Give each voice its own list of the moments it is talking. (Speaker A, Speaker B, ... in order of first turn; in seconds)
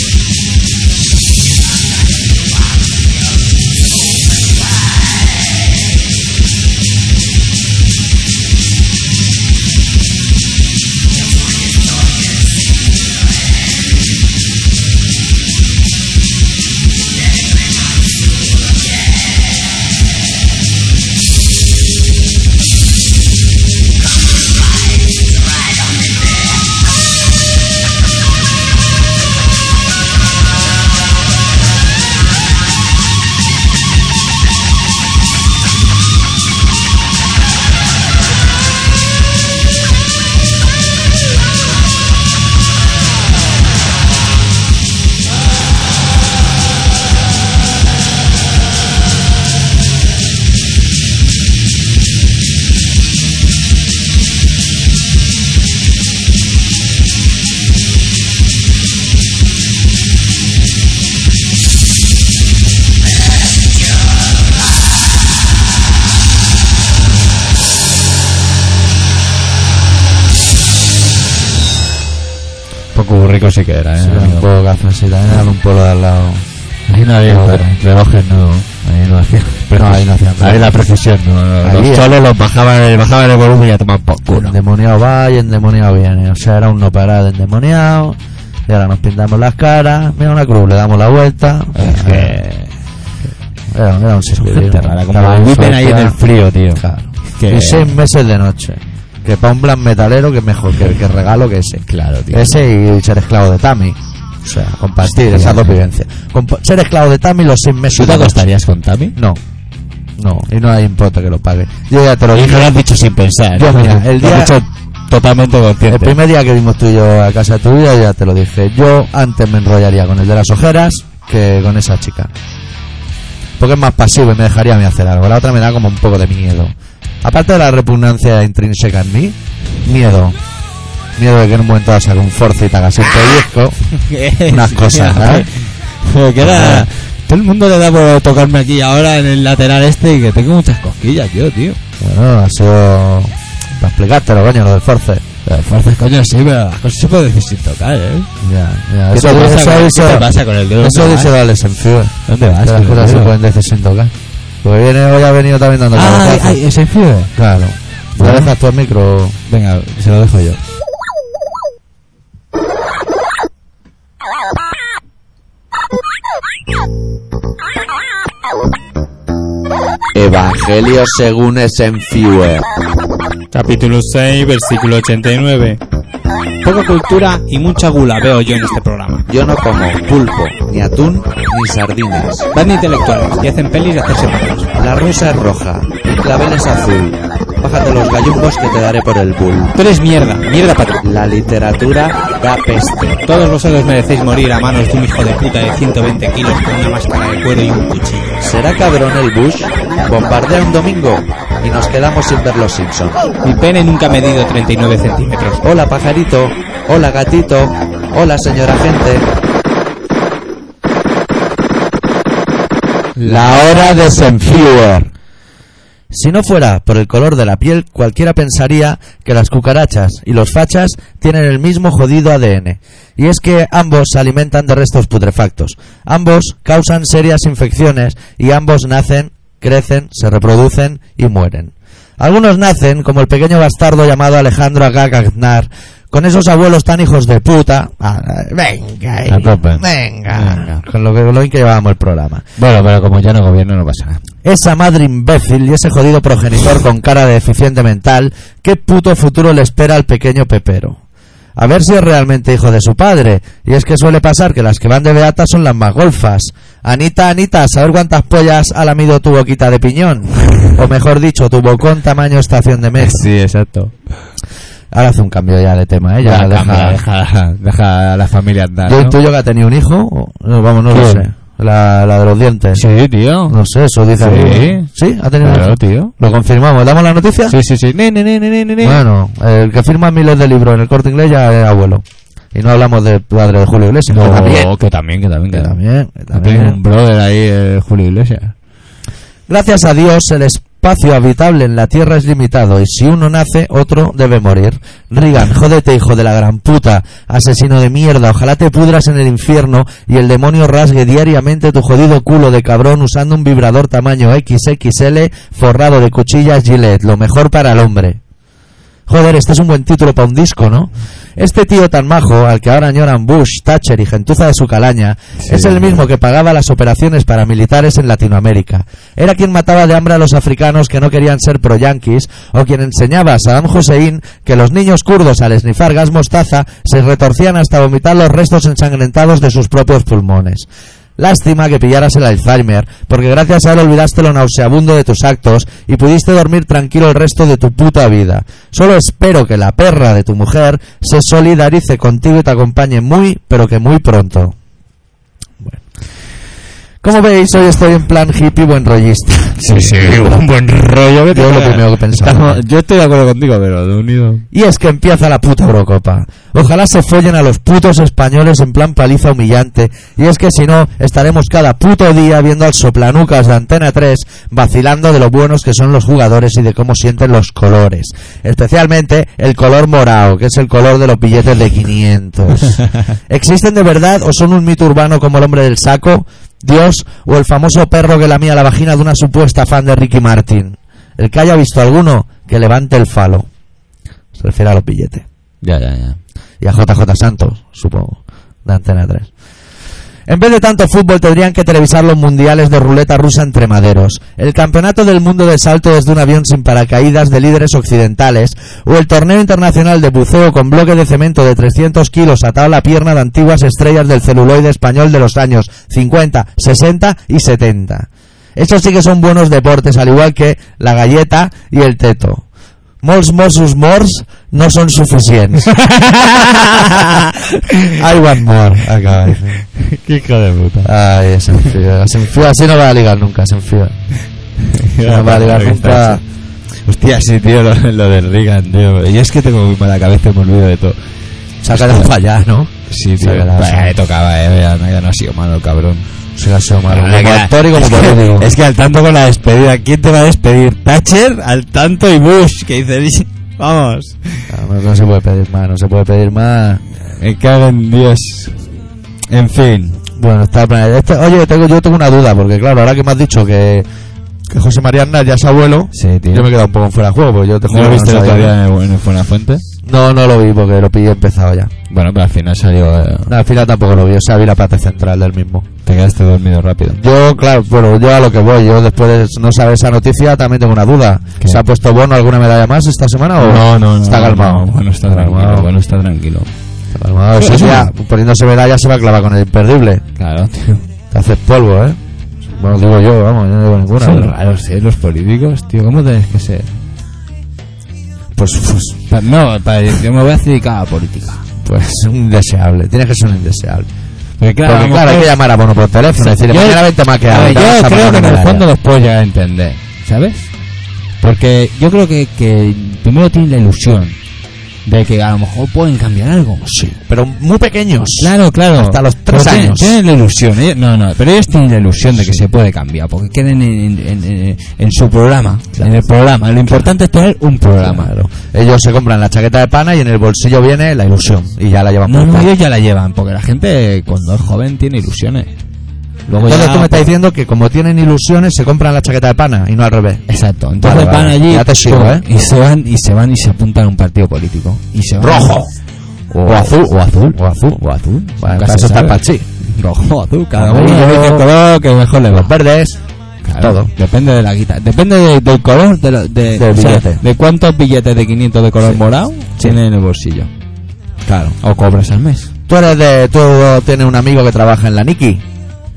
Speaker A: 73.0-74.5, 76.9-84.6, 91.8-92.7, 94.4-98.0, 101.9-102.6, 105.0-105.8, 108.0-109.2, 112.3-116.2, 134.0-141.8, 145.4-148.3, 149.1-151.3, 152.3-153.3, 155.9-157.3, 158.2-158.5, 159.5-160.6, 239.3-240.8, 242.6-244.2, 263.0-263.9, 266.2-269.2, 270.9-271.3, 272.7-273.6, 274.2-274.9, 275.4-276.1, 277.5-279.0, 284.1-285.8, 286.3-288.6, 315.4-316.0, 349.6-354.5, 385.6-386.2, 415.8-417.9, 419.8-420.9, 424.6-426.2, 426.9-431.0, 431.7-432.1, 432.9-436.1, 436.9-444.5, 447.2-448.8, 449.3-450.0, 455.9-456.5, 457.7-459.6, 461.9-463.4, 465.9-467.0, 473.4-476.5, 477.4-477.9, 480.2-480.8, 484.0-486.7, 489.1-491.4, 494.4-495.4, 496.2-500.5, 501.2-504.2, 504.9-506.7, 508.2-518.1, 522.1-525.5, 526.3-527.1, 530.3-535.6, 536.3-542.5, 543.5-550.5, 551.6-552.5
Speaker B: 74.0-76.5, 77.3-77.7, 79.7-80.8, 81.6-82.1, 84.3-92.4, 93.7-96.2, 96.8-108.4, 110.2-112.7, 113.5-114.6, 115.9-122.3, 123.6-130.4, 131.2-133.8, 134.5-135.5, 136.4-136.9, 142.0-145.2, 148.4-156.6, 157.4-159.4, 170.1-172.7, 179.3-182.5, 184.8-189.8, 191.0-193.3, 198.4-203.3, 205.6-209.3, 213.2-215.1, 216.1-242.4, 244.4-251.0, 251.6-263.2, 264.9-267.0, 268.9-272.8, 273.5-277.6, 278.8-284.7, 285.5-286.8, 289.5-308.2, 309.1-344.6, 347.0-350.4, 351.3-352.6, 354.5-383.5, 384.4-385.2, 386.6-389.3, 390.3-412.4, 413.0-415.8, 417.9-419.6, 420.8-424.0, 425.0-426.2, 431.6-433.9, 436.4-438.5, 444.5-446.8, 450.2-453.9, 454.5-458.6, 459.8-461.7, 463.3-465.7, 466.9-475.7, 476.9-480.0, 481.1-484.3, 488.4-489.0, 491.6-493.9, 494.6-498.7, 506.6-510.0, 512.2-512.4, 515.8-516.0, 517.8-522.5, 526.4-530.2, 530.8-532.2, 535.2-535.7, 536.5-537.8, 538.4-539.5, 540.5-541.5, 542.3-543.0, 543.6-543.9, 546.6-547.2, 551.2-551.6, 552.7-555.4
Speaker C: 173.5-175.8, 176.6-179.3, 182.5-184.7, 189.8-191.0, 193.2-198.5, 203.4-205.6, 213.2-213.5